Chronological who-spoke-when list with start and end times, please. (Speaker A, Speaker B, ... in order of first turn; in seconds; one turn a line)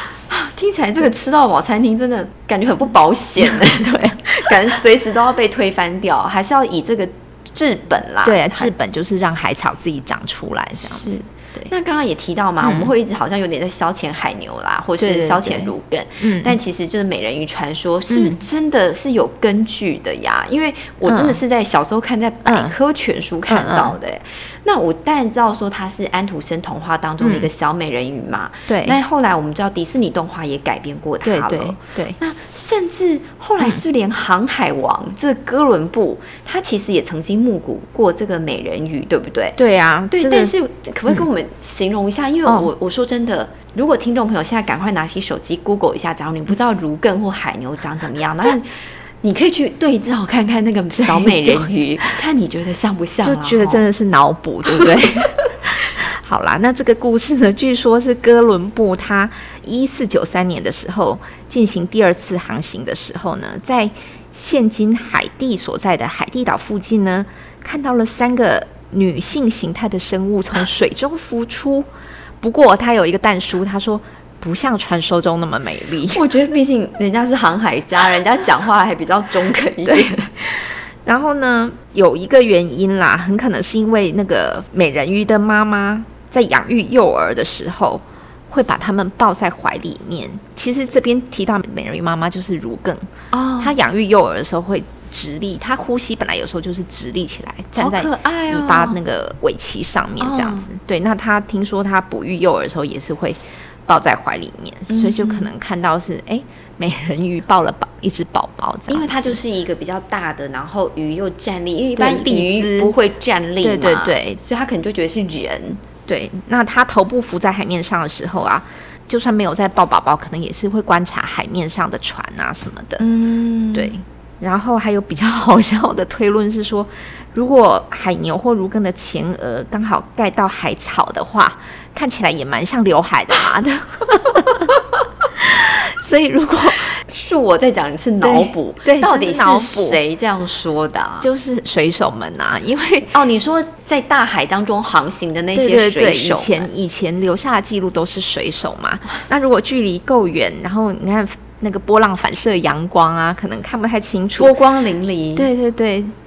Speaker A: 0.3-8.7
Speaker B: 3.4-4.4
Speaker B: 8.2-11.7
Speaker A: 10.8-39.6
Speaker B: 12.6-12.9
Speaker B: 15.0-16.6
Speaker B: 18.1-18.4
Speaker B: 21.0-21.4
Speaker B: 22.4-22.8
Speaker B: 23.5-24.0
Speaker B: 27.2-27.5
Speaker B: 28.7-29.0
Speaker B: 31.2-32.2
Speaker B: 39.6-40.5
Speaker A: 40.1-53.9
Speaker B: 42.4-42.7
Speaker B: 50.9-52.2
Speaker B: 53.2-71.9
Speaker B: 72.4-76.2
Speaker A: 76.1-80.3
Speaker B: 79.9-80.1
Speaker B: 81.0-109.4
Speaker A: 93.3-93.7
Speaker A: 97.8-99.0
Speaker A: 100.2-100.7
Speaker A: 104.9-105.5
Speaker A: 108.9-115.8
Speaker B: 112.0-113.0
Speaker B: 113.6-114.4
Speaker B: 116.1-123.1
Speaker A: 123.0-123.9
Speaker B: 123.7-134.8
Speaker B: 135.3-137.0
Speaker A: 137.0-141.3
Speaker B: 138.2-140.0
Speaker B: 141.2-143.2
Speaker A: 143.1-146.7
Speaker B: 145.5-154.6
Speaker A: 154.4-155.5
Speaker B: 155.3-156.1